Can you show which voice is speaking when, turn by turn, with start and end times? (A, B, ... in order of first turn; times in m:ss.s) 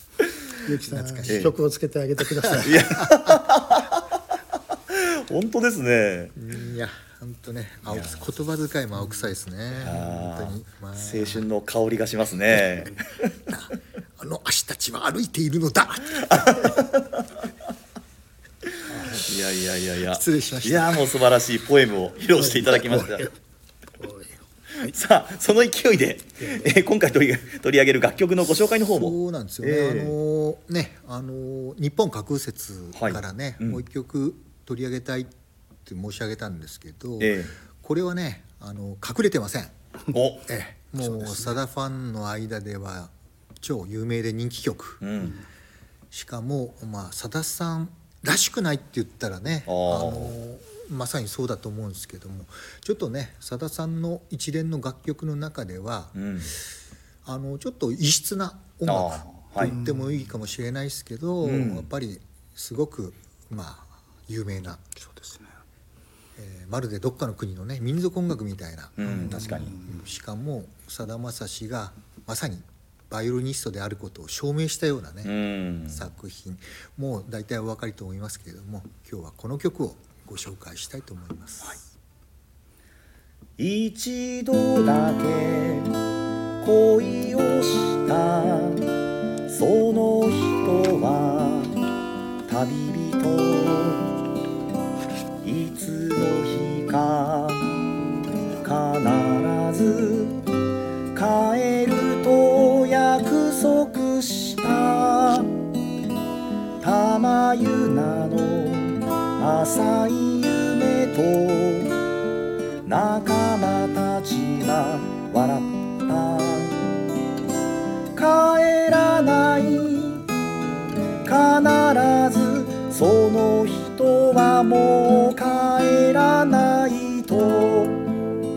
0:00.6-0:03.0 A
0:00.8-0:01.5 B
0:01.3-0:01.5 C
0:02.6-0:04.2 C
0:03.0-0:03.4 B
0:04.7-0:06.3 C
0:06.4-0:11.5 B
0:07.9-0:08.2 C
0:09.8-0:13.3 C
0:13.5-0:16.8 B
0:16.3-0:17.2 C
0:18.8-0:23.3 C
0:19.0-0:19.2 B
0:20.1-0:21.2 B
0:22.4-0:23.3 A
0:22.7-0:23.2 B
0:24.0-0:24.9 A
0:24.8-0:30.2 C
0:26.4-0:26.7 A
0:28.8-0:35.3 B
0:33.0-0:33.8 C
0:35.8-0:39.8 B
0:37.2-0:37.6 C
0:40.1-0:40.5 C
0:40.5-0:45.0 B
0:45.0-0:45.4 C
0:46.1-0:56.2 B
0:49.7-0:50.4 C
0:56.1-0:56.6 C
0:57.2-1:04.8 B
0:58.9-0:59.8 C
0:59.6-1:00.2 A
1:01.4-1:01.9 C
1:05.0-1:05.6 A
1:06.4-1:15.4 B
1:09.0-1:09.8 C
1:09.0-1:10.0 A
1:15.2-1:16.1 C
1:15.9-1:21.8 B
1:23.6-1:26.0 C
1:26.6-1:28.9 C
1:29.5-1:31.8 C
1:32.5-1:34.1 C
1:35.4-1:37.7 C
1:38.6-1:40.4 C
1:41.1-1:45.5 C
1:46.8-1:52.0 C
1:52.8-1:56.8 C
1:58.1-2:00.3 C
2:01.2-2:08.1 C